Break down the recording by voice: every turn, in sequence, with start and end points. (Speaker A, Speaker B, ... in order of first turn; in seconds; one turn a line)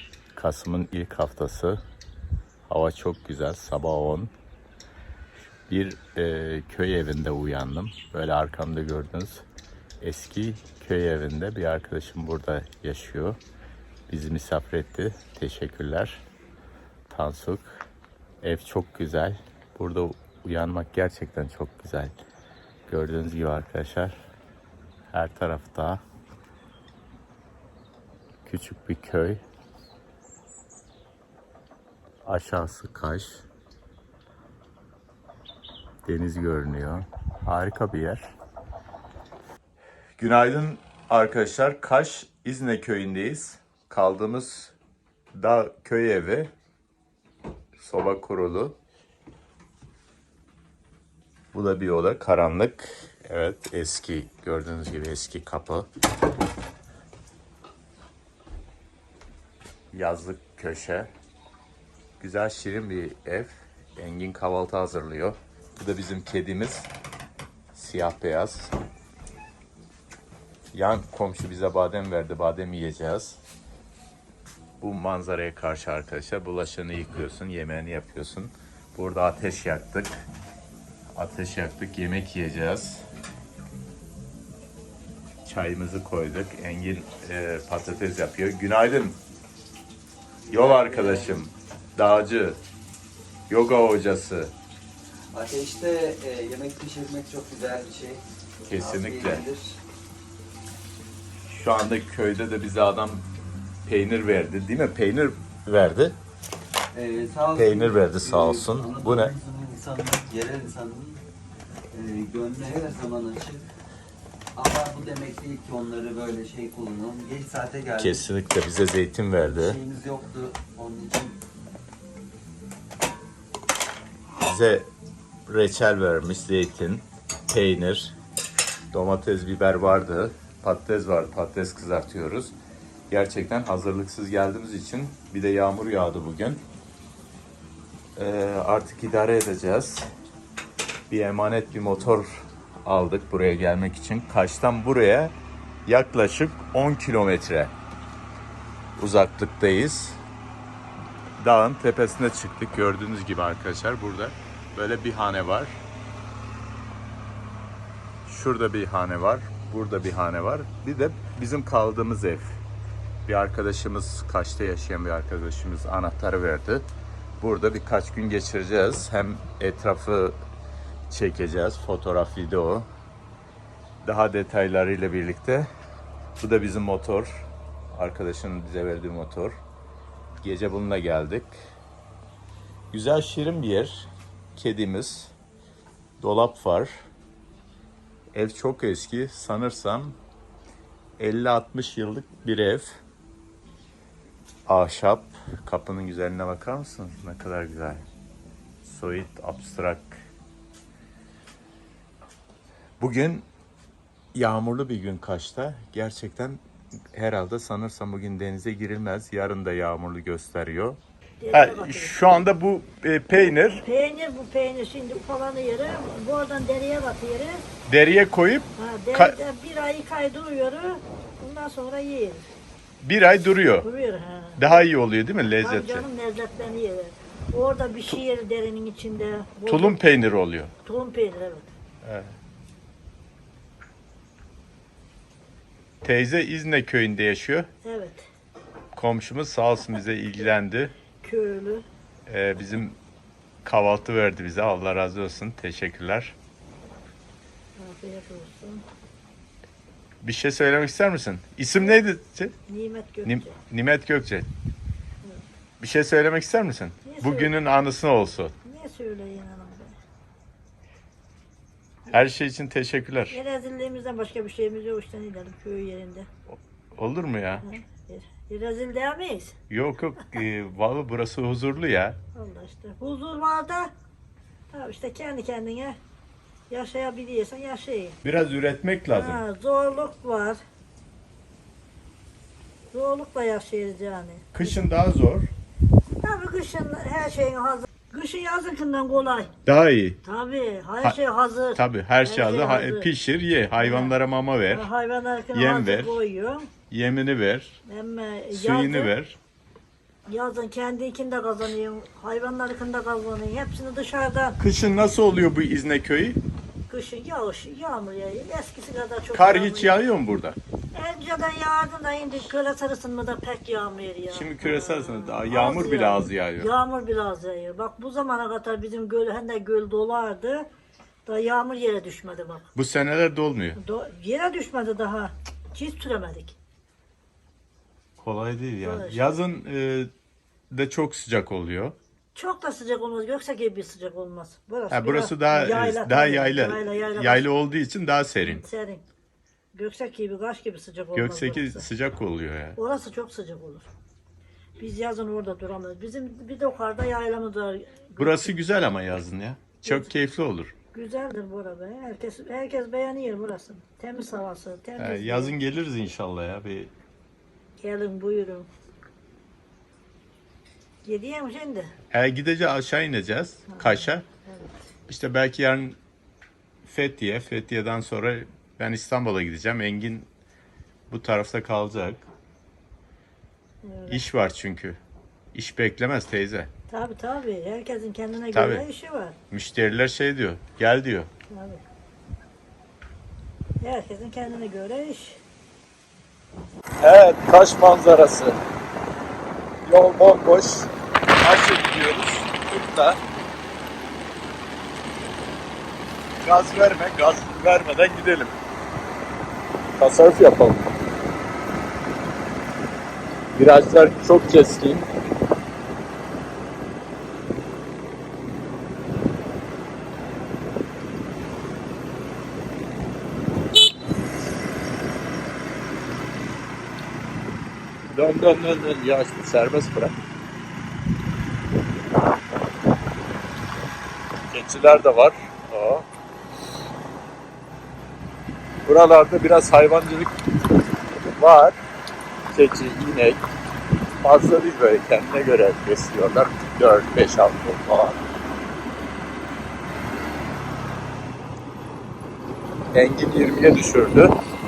Speaker A: 0.3-1.8
Speaker A: 2.7-4.3
Speaker A: 5.7-9.5
Speaker A: 10.0-13.4
Speaker A: 14.1-16.2
Speaker A: 17.1-17.9
Speaker A: 18.4-22.2
Speaker A: 22.9-24.1
Speaker A: 25.1-26.0
Speaker A: 28.4-29.4
Speaker A: 32.2-33.5
Speaker A: 36.0-38.3
Speaker A: 40.2-44.7
Speaker A: 45.3-46.5
Speaker A: 47.8-48.8
Speaker A: 51.5-55.9
Speaker A: 59.9-61.1
Speaker A: 62.2-66.9
Speaker A: 67.7-68.7
Speaker A: 70.7-73.4
Speaker A: 74.8-80.3
Speaker A: 81.1-83.0
Speaker A: 85.4-89.2
Speaker B: 90.4-91.5
Speaker A: 90.5-92.6
Speaker A: 93.5-94.5
Speaker B: 95.3-99.8
Speaker A: 98.7-99.5
Speaker A: 101.4-103.3
Speaker A: 103.8-106.2
Speaker B: 106.9-111.2
Speaker A: 107.5-109.3
Speaker B: 111.9-113.7
Speaker B: 114.5-118.2
Speaker A: 118.0-119.8
Speaker B: 119.4-121.4
Speaker A: 124.4-124.9
Speaker A: 125.5-128.2
Speaker A: 128.9-132.5
Speaker A: 133.1-136.6
Speaker A: 138.2-140.1
Speaker A: 141.1-147.7
Speaker A: 149.0-150.2
Speaker A: 151.4-155.8
Speaker A: 158.2-162.6
Speaker A: 163.2-166.8
Speaker A: 167.4-170.4
Speaker A: 171.1-172.9
Speaker A: 174.0-175.7
Speaker A: 176.4-179.6
Speaker A: 180.4-181.6
Speaker A: 182.9-185.3
Speaker A: 186.2-186.9
Speaker A: 188.3-190.2
Speaker A: 191.2-192.9
Speaker A: 194.7-198.1
Speaker A: 198.8-200.3
Speaker A: 203.0-203.5
Speaker A: 204.3-211.0
Speaker C: 211.4-212.4
Speaker A: 211.5-213.8
Speaker C: 213.4-217.7
Speaker A: 217.9-219.4
Speaker C: 218.8-222.4
Speaker A: 223.0-223.9
Speaker C: 223.8-224.8
Speaker A: 224.6-226.0
Speaker C: 225.6-230.0
Speaker A: 229.7-230.7
Speaker C: 230.8-231.7
Speaker A: 232.0-232.3
Speaker A: 236.0-237.7
Speaker C: 237.8-238.2
Speaker A: 238.9-240.9
Speaker C: 241.2-241.8
Speaker A: 242.3-243.0
Speaker A: 243.6-246.3
Speaker C: 247.8-248.8
Speaker A: 250.2-252.5
Speaker C: 252.7-253.6
Speaker A: 253.2-254.5
Speaker A: 255.8-258.5
Speaker C: 257.0-257.5
Speaker C: 258.6-259.9
Speaker A: 262.1-263.4
Speaker C: 263.3-266.3
Speaker A: 266.5-267.6
Speaker C: 267.6-269.5
Speaker A: 269.7-272.2
Speaker C: 272.3-273.9
Speaker C: 274.7-276.0
Speaker C: 276.7-278.2
Speaker A: 278.2-279.4
Speaker C: 279.1-280.6
Speaker C: 282.9-284.8
Speaker A: 284.5-285.5
Speaker C: 286.2-289.5
Speaker A: 289.6-290.2
Speaker C: 290.2-293.1
Speaker A: 291.8-294.9
Speaker C: 293.8-294.1
Speaker C: 294.7-296.7
Speaker A: 295.5-296.2
Speaker A: 296.9-297.8
Speaker C: 297.8-299.1
Speaker A: 298.5-299.4
Speaker C: 300.3-304.6
Speaker A: 304.6-306.4
Speaker C: 306.9-309.9
Speaker A: 309.3-310.6
Speaker C: 310.9-320.7
Speaker A: 314.3-316.7
Speaker C: 321.2-322.7
Speaker A: 322.7-323.8
Speaker C: 323.7-326.6
Speaker A: 328.2-330.1
Speaker C: 328.8-329.2
Speaker A: 330.7-331.9
Speaker C: 332.3-337.4
Speaker A: 334.9-338.6
Speaker C: 338.5-339.0
Speaker C: 339.7-341.9
Speaker A: 341.1-342.8
Speaker C: 342.8-343.9
Speaker C: 344.8-348.6
Speaker A: 348.2-350.7
Speaker C: 349.8-350.1
Speaker C: 350.9-355.5
Speaker A: 355.0-356.9
Speaker C: 357.8-358.7
Speaker C: 361.0-361.9
Speaker A: 362.1-364.2
Speaker C: 363.7-364.8
Speaker A: 365.1-366.0
Speaker A: 366.8-370.3
Speaker A: 371.1-372.3
Speaker C: 373.8-374.2
Speaker A: 374.1-375.0
Speaker A: 375.5-376.7
Speaker C: 376.9-379.4
Speaker A: 378.5-378.9
Speaker A: 379.5-381.3
Speaker C: 381.5-381.8
Speaker C: 383.8-385.4
Speaker A: 387.0-388.6
Speaker A: 389.9-393.2
Speaker A: 396.4-398.5
Speaker A: 400.0-400.9
Speaker A: 403.5-405.1
Speaker A: 418.1-420.1
Speaker A: 424.5-426.1
Speaker A: 428.9-430.3
Speaker A: 431.3-431.8
Speaker A: 432.5-433.4
Speaker A: 434.2-438.2
Speaker A: 442.9-444.3